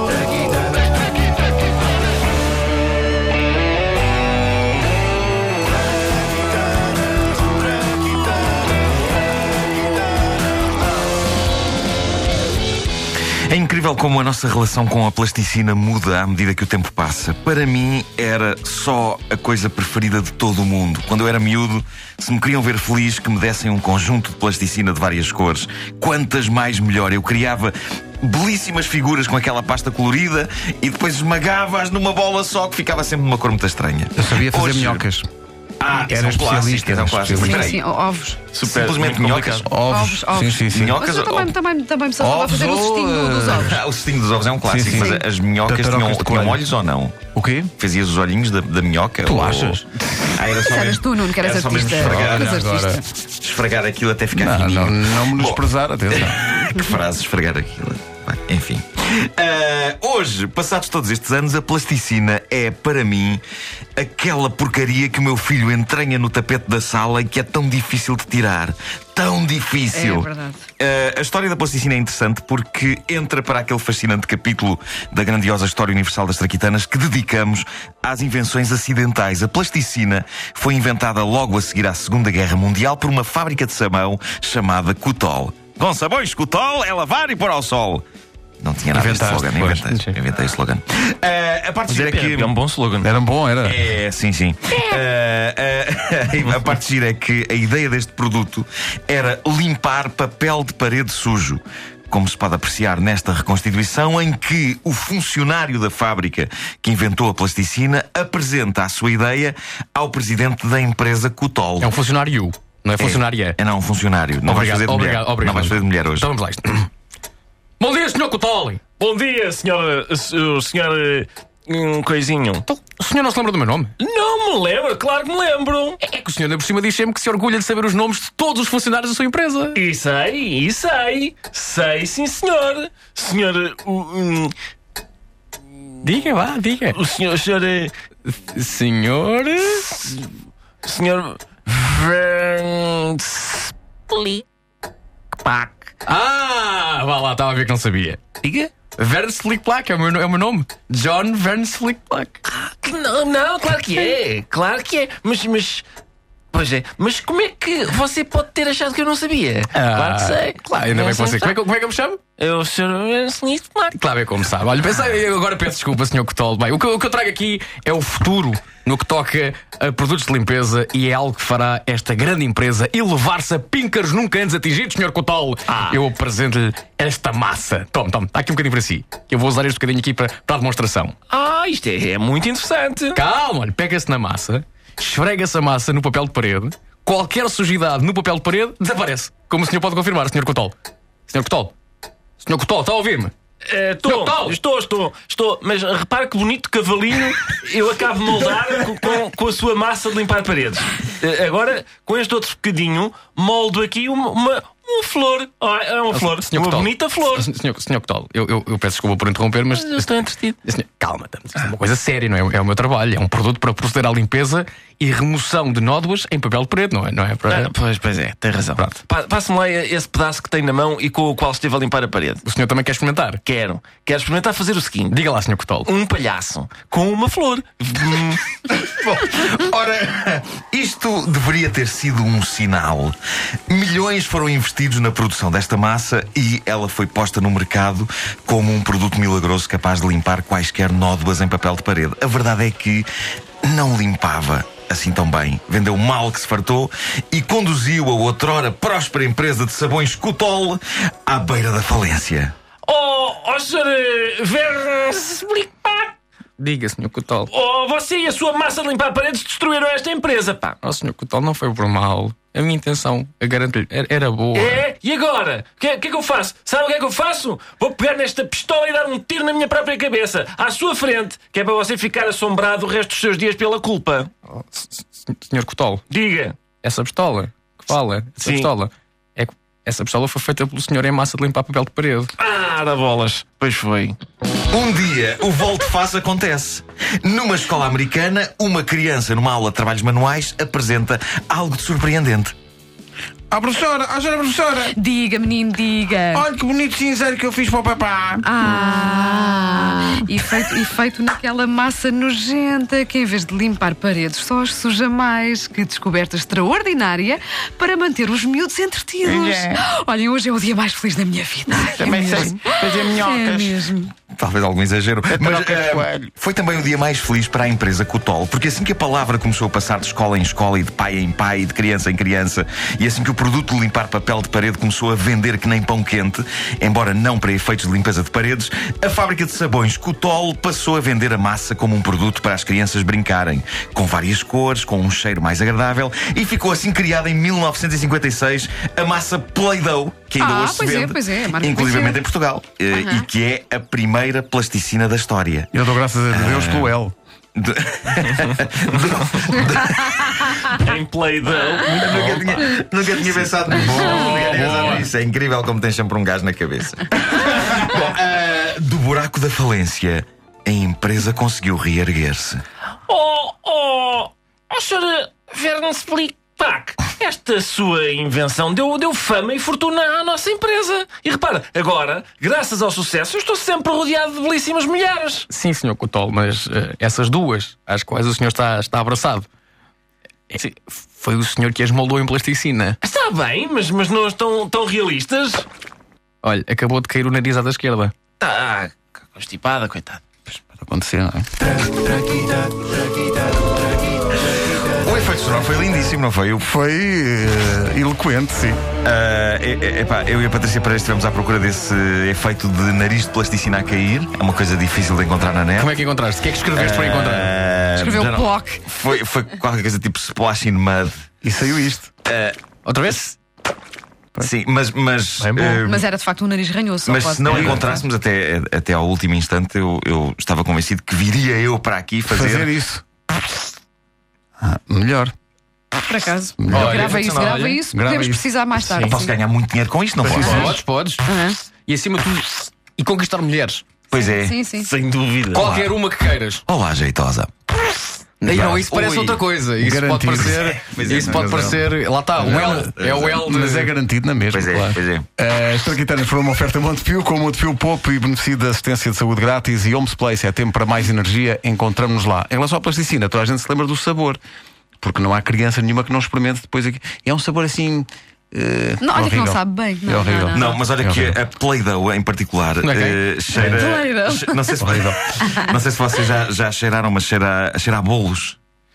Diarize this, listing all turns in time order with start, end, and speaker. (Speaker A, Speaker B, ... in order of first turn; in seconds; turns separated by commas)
Speaker A: 13.5-35.0, Speaker B: 34.1-35.3, Speaker A: 35.8-37.8, Speaker B: 36.0-37.7, Speaker C: 37.4-38.4, Speaker D: 38.5-39.7, Speaker A: 38.6-39.7, Speaker B: 39.6-41.0, Speaker C: 39.8-43.8, Speaker A: 40.7-41.5, Speaker B: 42.2-43.7, Speaker A: 43.5-47.1, Speaker B: 44.7-46.6, Speaker C: 44.9-45.2, Speaker B: 47.3-47.7, Speaker A: 47.8-52.6, Speaker B: 49.2-50.4, Speaker C: 50.6-53.0, Speaker B: 52.0-53.0, Speaker A: 53.3-63.4, Speaker B: 54.3-56.4, Speaker A: 64.0-88.0, Speaker C: 69.9-70.6, Speaker A: 88.6-92.5, Speaker B: 88.9-89.8, Speaker D: 91.9-93.1, Speaker B: 93.0-93.8, Speaker A: 93.6-111.9, Speaker E: 111.8-113.6, Speaker A: 113.0-116.3, Speaker E: 114.5-116.9, Speaker E: 117.8-118.8, Speaker D: 119.0-122.7, Speaker E: 122.7-123.9, Speaker D: 124.0-126.0, Speaker E: 126.0-129.8, Speaker D: 129.7-134.5, Speaker E: 136.0-137.0, Speaker D: 136.9-137.9, Speaker E: 138.2-140.0, Speaker D: 140.8-144.4, Speaker D: 145.3-145.9, Speaker E: 146.1-148.2, Speaker D: 148.4-148.7, Speaker E: 148.9-152.4, Speaker D: 152.5-155.8, Speaker D: 156.5-161.6, Speaker E: 159.7-162.2, Speaker D: 162.4-164.0, Speaker E: 163.9-181.1, Speaker D: 175.7-176.0, Speaker D: 181.3-183.2, Speaker E: 183.1-190.7, Speaker E: 191.3-191.7, Speaker E: 192.4-193.3, Speaker D: 193.7-207.5, Speaker E: 194.0-194.6, Speaker E: 206.1-217.7, Speaker D: 209.7-210.6, Speaker D: 217.5-222.4, Speaker E: 222.4-223.4, Speaker D: 223.4-225.2, Speaker E: 225.1-225.9, Speaker D: 225.8-228.4, Speaker A: 228.7-233.2, Speaker A: 233.7-243.1, Speaker A: 243.6-252.5, Speaker D: 252.8-256.1, Speaker E: 256.6-257.5, Speaker D: 257.5-260.8, Speaker E: 260.8-264.8, Speaker D: 264.5-274.3, Speaker E: 274.5-276.0, Speaker D: 276.1-276.6, Speaker E: 276.8-282.3, Speaker D: 278.4-278.7, Speaker D: 282.4-284.2, Speaker A: 284.7-292.5, Speaker B: 293.5-294.9, Speaker C: 294.9-296.5, Speaker B: 296.3-298.5, Speaker C: 298.4-314.1, Speaker B: 309.2-309.8, Speaker B: 311.8-313.8, Speaker A: 314.3-345.7, Speaker B: 315.3-316.3, Speaker C: 340.4-342.2, Speaker C: 342.9-343.2, Speaker B: 345.7-347.1, Speaker A: 346.3-346.9, Speaker A: 347.6-350.7, Speaker D: 350.7-352.8, Speaker A: 352.0-362.6, Speaker D: 353.4-355.0, Speaker D: 363.1-375.5, Speaker E: 375.5-379.5, Speaker E: 380.5-383.0, Speaker D: 383.0-385.6, Speaker E: 386.4-388.1, Speaker D: 388.4-390.2, Speaker B: 390.5-391.5, Speaker A: 394.9-396.7, Speaker B: 396.6-398.8, Speaker A: 399.0-405.9, Speaker E: 405.8-407.5, Speaker A: 406.7-411.2, Speaker C: 408.0-408.8, Speaker B: 411.4-412.1, Speaker A: 412.2-412.6, Speaker E: 412.9-413.3, Speaker A: 414.4-416.0, Speaker D: 415.4-415.8, Speaker C: 415.8-418.0, Speaker A: 417.0-422.7, Speaker B: 417.5-417.8, Speaker B: 422.3-423.0, Speaker B: 424.6-425.3, Speaker C: 426.1-429.3, Speaker B: 426.6-427.2, Speaker E: 426.7-427.8, Speaker A: 426.7-427.6, Speaker B: 427.9-428.4, Speaker A: 428.9-430.7, Speaker B: 430.2-430.7, Speaker E: 430.2-431.2, Speaker C: 430.4-430.7, Speaker C: 431.2-431.6, Speaker E: 431.8-434.0, Speaker A: 434.1-434.6, Speaker C: 434.1-434.9, Speaker D: 434.7-435.7, Speaker E: 435.5-436.6, Speaker A: 435.5-435.9, Speaker A: 436.7-437.5, Speaker E: 438.4-443.9, Speaker A: 438.5-439.4, Speaker B: 439.8-441.9, Speaker A: 440.7-441.8, Speaker A: 442.4-443.4, Speaker B: 442.5-442.8, Speaker B: 443.4-444.8, Speaker A: 444.5-445.2, Speaker E: 444.7-444.9, Speaker B: 445.4-454.4, Speaker B: 455.0-461.4, Speaker C: 459.0-460.8, Speaker A: 460.5-468.6, Speaker E: 462.8-463.2, Speaker C: 463.5-464.7, Speaker B: 464.8-465.2